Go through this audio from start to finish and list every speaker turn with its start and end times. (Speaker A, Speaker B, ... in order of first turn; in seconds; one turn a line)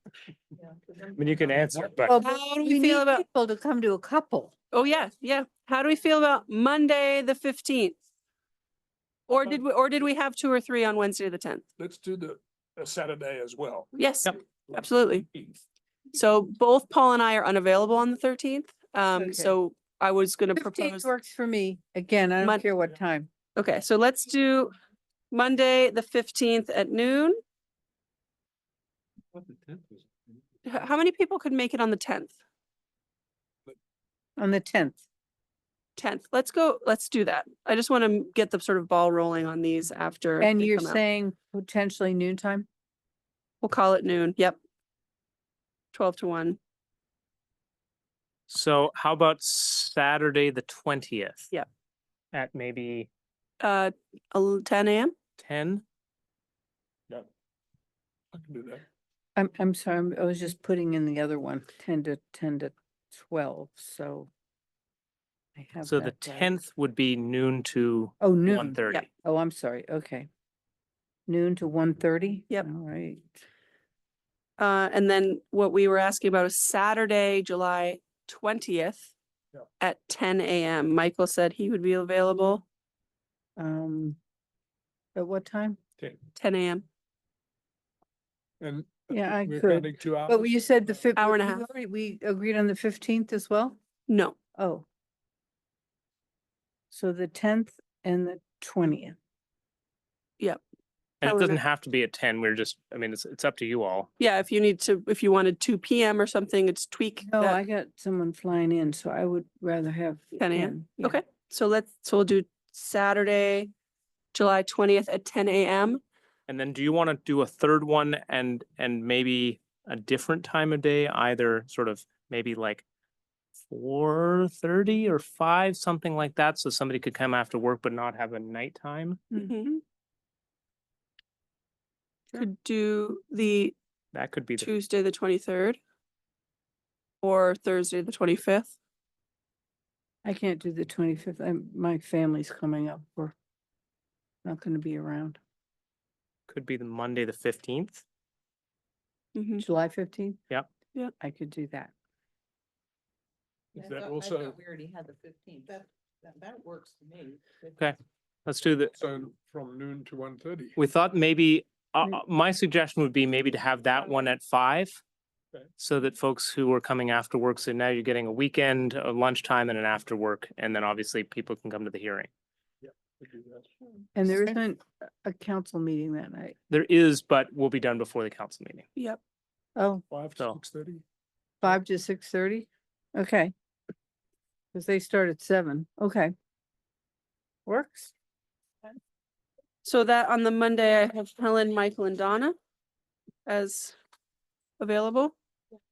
Speaker A: 1.1-2.2
Speaker B: 2.0-4.5
Speaker C: 2.2-3.2
Speaker C: 4.7-8.0
Speaker C: 9.3-11.7
Speaker D: 11.8-14.0
Speaker C: 13.9-15.3
Speaker D: 14.7-15.6
Speaker C: 16.1-21.1
Speaker B: 19.1-19.5
Speaker B: 20.6-23.3
Speaker C: 22.4-22.7
Speaker C: 23.6-24.8
Speaker C: 25.3-27.4
Speaker C: 30.6-32.4
Speaker B: 34.4-35.0
Speaker C: 36.0-41.0
Speaker B: 40.4-42.7
Speaker C: 43.6-44.6
Speaker C: 45.9-46.6
Speaker A: 48.5-51.5
Speaker A: 52.3-53.1
Speaker C: 53.6-55.1
Speaker A: 55.4-55.8
Speaker D: 58.3-58.8
Speaker B: 59.4-64.3
Speaker B: 65.6-66.6
Speaker A: 65.9-69.0
Speaker B: 68.2-70.3
Speaker B: 71.3-73.4
Speaker C: 74.6-79.1
Speaker C: 79.8-82.6
Speaker B: 83.6-84.2
Speaker B: 85.2-85.8
Speaker C: 86.4-86.9
Speaker D: 88.6-90.9
Speaker B: 89.1-93.8
Speaker C: 91.2-91.7
Speaker C: 94.1-94.4
Speaker B: 94.6-94.8
Speaker B: 96.9-99.2
Speaker C: 101.2-101.6
Speaker A: 101.2-104.1
Speaker C: 104.2-107.6
Speaker B: 107.2-111.2
Speaker C: 110.4-113.7
Speaker C: 114.3-116.0
Speaker A: 116.5-122.8
Speaker A: 123.7-129.2
Speaker C: 129.4-129.8
Speaker C: 132.3-133.7
Speaker A: 134.1-134.7
Speaker C: 134.6-135.8
Speaker C: 137.2-138.7
Speaker B: 140.2-143.3
Speaker B: 144.4-145.4
Speaker A: 146.5-148.0
Speaker C: 149.3-149.6
Speaker B: 149.6-150.4
Speaker B: 151.2-151.9
Speaker D: 153.8-154.6
Speaker E: 153.8-157.5
Speaker A: 157.8-159.0
Speaker D: 158.9-160.8
Speaker A: 160.8-165.0
Speaker A: 165.8-172.3
Speaker D: 172.8-173.7
Speaker B: 174.2-176.6
Speaker A: 176.7-178.9
Speaker B: 179.8-180.0
Speaker D: 180.1-181.0
Speaker B: 181.6-183.5
Speaker B: 184.7-186.3
Speaker B: 187.7-188.1
Speaker C: 189.8-192.6
Speaker C: 193.5-194.0
Speaker C: 194.8-195.3